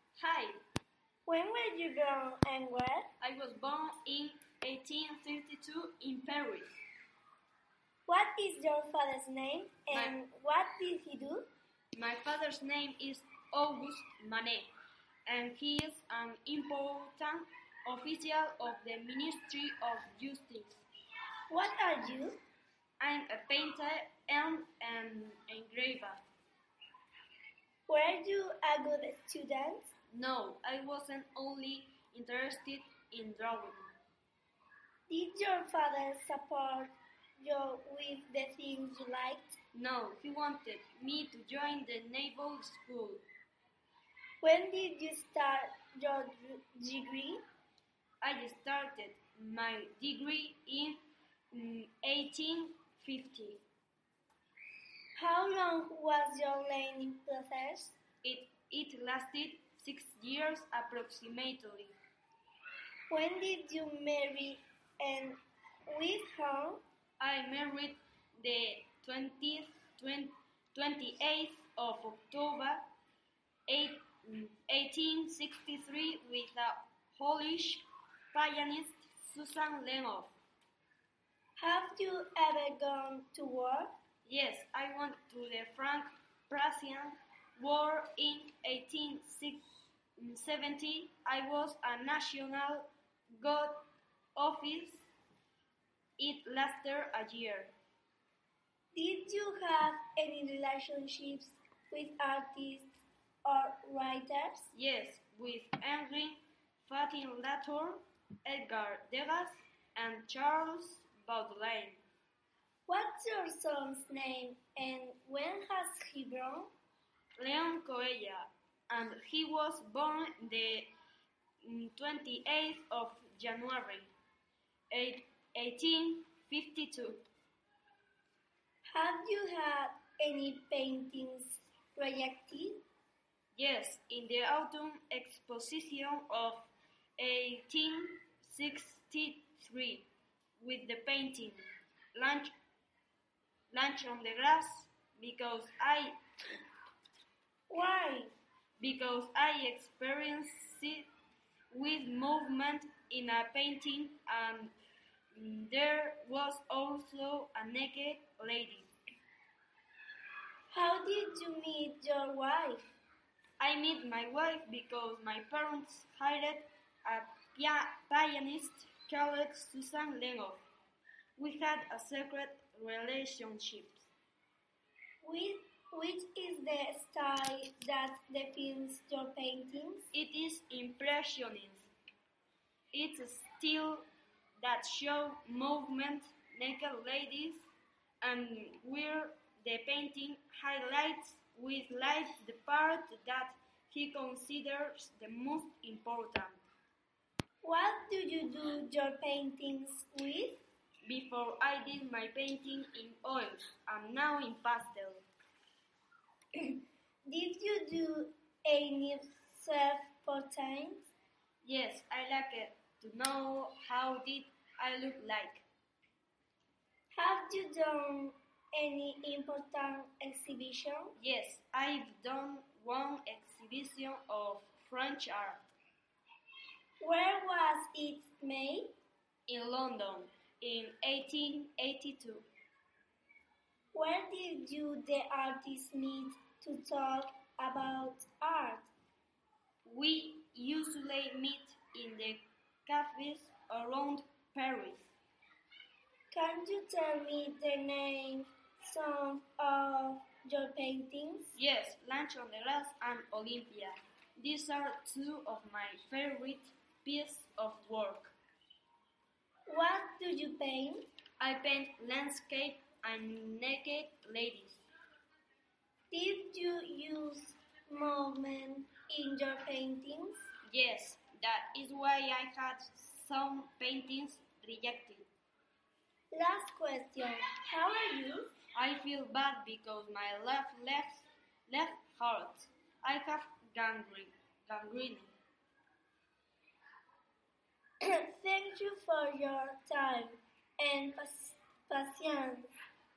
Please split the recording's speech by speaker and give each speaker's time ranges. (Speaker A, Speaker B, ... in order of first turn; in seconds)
Speaker A: 0.2-0.6, 3.2-6.8, 11.9-14.7, 15.3-20.8, 23.0-26.2, 30.1-33.9, 39.7-43.2, 48.2-53.6, 58.2-61.9, 67.2-72.8, 73.7-80.3, 84.2-89.6, 90.2-93.8, 94.3-95.1, 96.2-97.7, 104.7-112.0, 117.4-120.9, 121.6-124.1, 124.9-127.2, 133.6-140.1, 140.6-141.6, 142.2-142.5, 143.7-146.2, 148.8-151.1, 151.7-154.7, 155.3-158.9, 163.6-170.6, 171.4-174.1, 180.1-181.9, 182.9-184.0, 184.6-187.7, 188.2-196.6, 201.1-205.2, 211.6-215.6, 221.2-225.7, 229.5-232.4, 239.8-245.1, 251.6-258.4, 261.4-264.8, 270.7-275.3, 278.7-285.3
Speaker B: 1.3-3.1, 8.1-11.5, 21.5-22.4, 27.9-29.9, 35.1-39.6, 44.4-47.4, 55.2-58.0, 63.1-66.8, 81.6-84.0, 98.9-102.9, 103.4-104.7, 112.9-116.7, 128.9-132.8, 147.7-148.3, 160.7-162.9, 175.2-180.1, 197.6-200.6, 206.6-211.1, 217.1-221.2, 227.0-228.9, 233.9-238.9, 246.3-251.6, 259.7-261.1, 266.1-270.4, 276.3-278.5, 288.0-292.7